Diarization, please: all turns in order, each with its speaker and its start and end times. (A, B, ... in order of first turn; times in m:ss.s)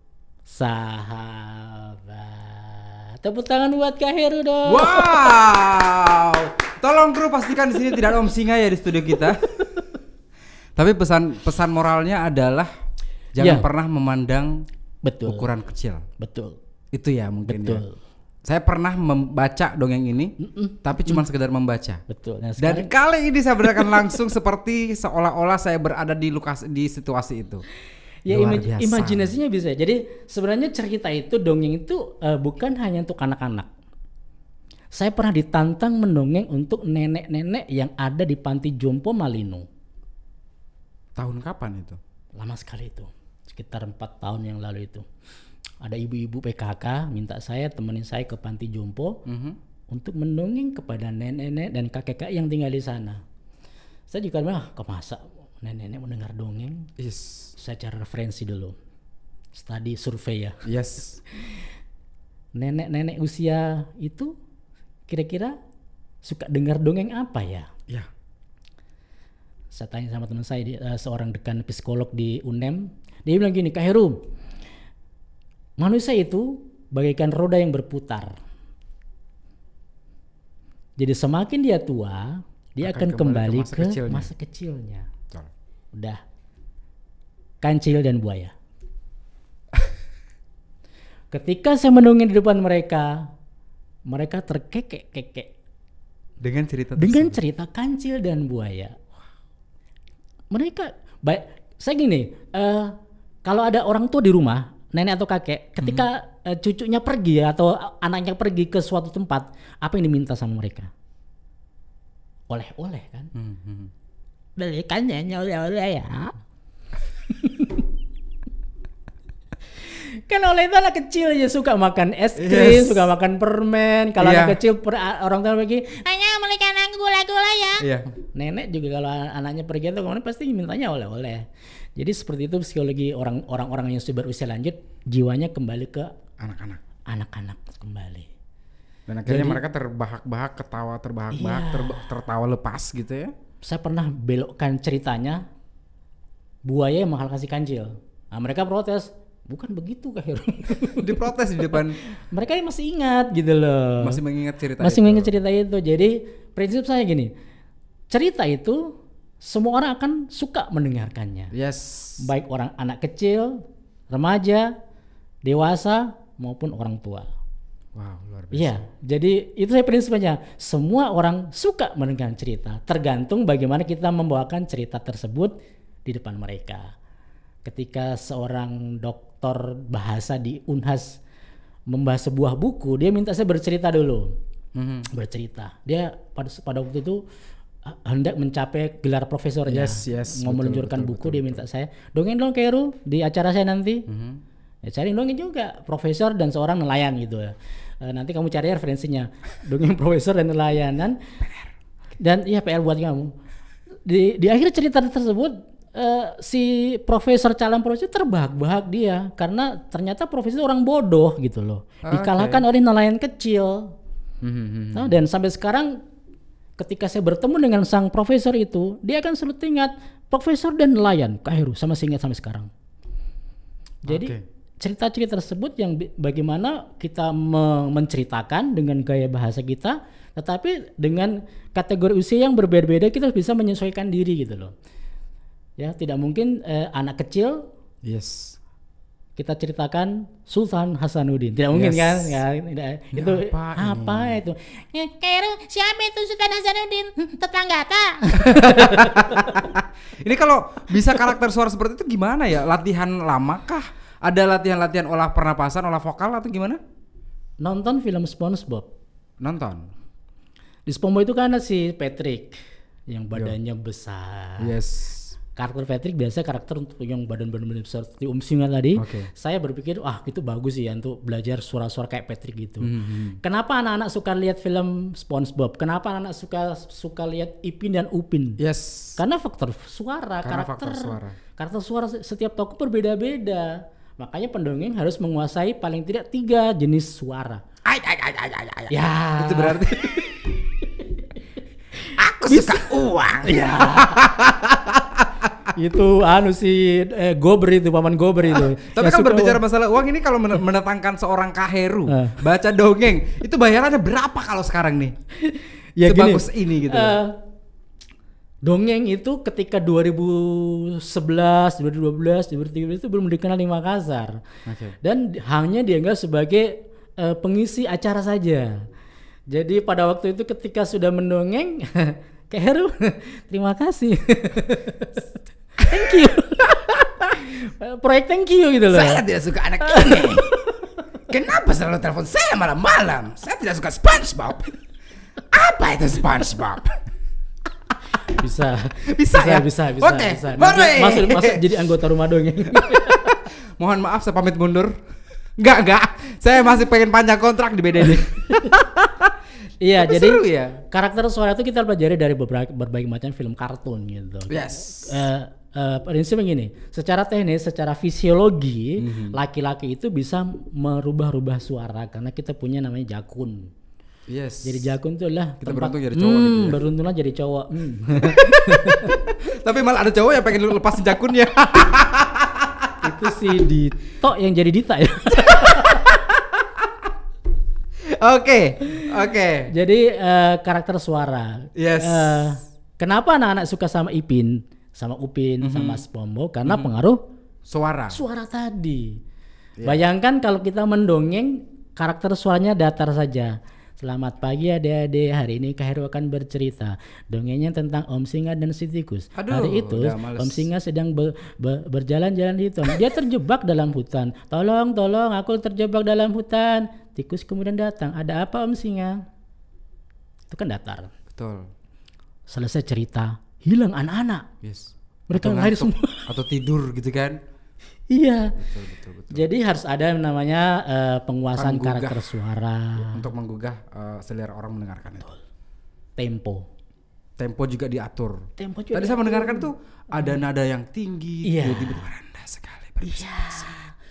0:00.4-0:05.4 A
0:04.6-0:09.4 B
0:10.8-0:12.7 B
0:13.3-0:14.6 B
0:13.4-0:13.7 A
0:15.0-0:15.5 A
0:15.2-0:16.0 B
0:16.2-0:16.6 A
0:16.9-0:17.8 B
0:17.4-0:18.0 A
0:18.4-0:22.0 B
0:20.4-0:21.2 A
0:22.1-0:22.9 A
0:22.6-0:27.6 B
0:23.6-0:24.0 A
0:28.2-0:33.7 A
0:28.3-0:29.3 B
0:34.9-0:39.6 A
0:41.2-0:42.0 B
0:42.4-0:45.0 A
0:45.8-0:49.2 A
0:49.2-0:49.6 B
0:49.9-0:53.2 A
0:54.1-0:56.9 A
0:57.0-0:57.5 B
0:57.6-0:58.8 A
0:59.5-1:00.6 A
1:00.6-1:01.2 B
1:02.5-1:04.3 A
1:05.1-1:05.6 A
1:06.2-1:07.7 A
1:09.7-1:14.2 A
1:15.8-1:18.4 A
1:21.0-1:25.1 A
1:22.8-1:24.3 B
1:25.9-1:26.2 A
1:27.6-1:28.5 A
1:31.3-1:33.3 A
1:34.1-1:35.5 A
1:36.4-1:37.4 B
1:37.0-1:39.0 A
1:40.5-1:50.9 A
1:52.5-1:53.3 A
1:53.3-1:53.9 B
1:54.6-1:56.3 A
1:57.3-1:57.8 A
2:00.3-2:06.0 A
2:02.4-2:03.1 B
2:04.2-2:04.6 B
2:06.0-2:07.8 C
2:07.8-2:08.1 B
2:08.3-2:16.1 A
2:16.4-2:16.8 B
2:17.1-2:18.3 A
2:19.1-2:23.3 B
2:19.3-2:19.6 A
2:21.3-2:22.1 A
2:23.6-2:25.4 A
2:26.6-2:34.2 A
2:30.8-2:32.0 B
2:34.0-2:35.3 B
2:34.8-2:37.3 A
2:38.1-2:41.5 A
2:41.5-2:42.2 B
2:42.2-2:44.7 A
2:45.4-2:47.3 A
2:47.9-2:48.8 B
2:48.5-2:55.5 A
2:56.0-2:56.9 A
2:57.6-3:01.2 A
3:01.9-3:04.4 A
3:04.7-3:05.1 B
3:05.1-3:07.2 A
3:07.8-3:14.1 A
3:09.7-3:11.6 B
3:14.1-3:14.4 B
3:14.8-3:21.2 A
3:21.4-3:21.7 B
3:22.2-3:23.3 A
3:24.0-3:33.9 A
3:32.0-3:32.6 B
3:34.4-3:35.1 B
3:34.9-3:36.0 A
3:36.8-3:42.7 A
3:44.0-3:54.7 A
3:44.1-3:44.4 B
3:55.8-3:57.7 A
3:58.0-3:58.6 B
3:59.4-4:04.8 A
4:01.7-4:02.4 B
4:03.1-4:04.4 B
4:04.9-4:09.0 C
4:08.4-4:16.8 B
4:08.5-4:09.5 A
4:17.6-4:18.9 A
4:19.4-4:19.9 B
4:20.9-4:24.8 A
4:24.6-4:25.3 B
4:25.6-4:38.6 A
4:29.0-4:29.3 B
4:32.8-4:33.4 B
4:38.6-4:39.2 B
4:39.2-4:47.6 A
4:40.4-4:41.4 B
4:47.8-4:50.3 B
4:48.9-4:50.5 A
4:52.2-4:55.7 B
4:52.5-4:54.2 A
4:55.7-4:59.6 A
4:58.5-5:05.1 B
5:02.1-5:02.4 A
5:05.4-5:07.4 A
5:06.0-5:07.2 B
5:08.6-5:14.4 A
5:14.6-5:15.0 B
5:15.0-5:18.9 A
5:19.5-5:25.2 A
5:25.8-5:29.2 A
5:25.9-5:26.2 B
5:28.9-5:30.6 B
5:29.8-5:30.8 A
5:31.3-5:34.8 B
5:35.5-5:37.0 B
5:38.3-5:43.3 A
5:39.0-5:41.8 B
5:42.7-5:44.9 B
5:45.6-5:49.3 B
5:49.8-6:03.7 A
5:50.0-5:50.8 B
5:54.5-5:55.3 B
5:59.0-5:59.4 B
6:04.3-6:04.9 B
6:04.6-6:09.2 A
6:05.6-6:06.8 B
6:08.2-6:13.3 B
6:13.0-6:16.0 A
6:15.4-6:16.9 B
6:18.0-6:19.7 B
6:19.7-6:27.2 A
6:21.8-6:22.6 B
6:25.6-6:26.0 B
6:26.6-6:26.9 B
6:27.6-6:28.2 B
6:28.1-6:29.2 A
6:29.8-6:49.2 A
6:39.4-6:40.7 B
6:50.5-6:51.1 A
6:51.3-6:51.7 B
6:52.5-6:54.5 A
6:54.6-6:57.4 B
6:55.3-6:56.3 A
6:58.1-6:58.6 A
6:58.6-6:59.5 B
6:59.3-7:03.3 A
7:01.6-7:02.2 B
7:03.0-7:05.3 B
7:06.2-7:06.6 A
7:07.4-7:13.8 B
7:08.6-7:09.7 A
7:11.4-7:12.0 A
7:13.0-7:13.9 A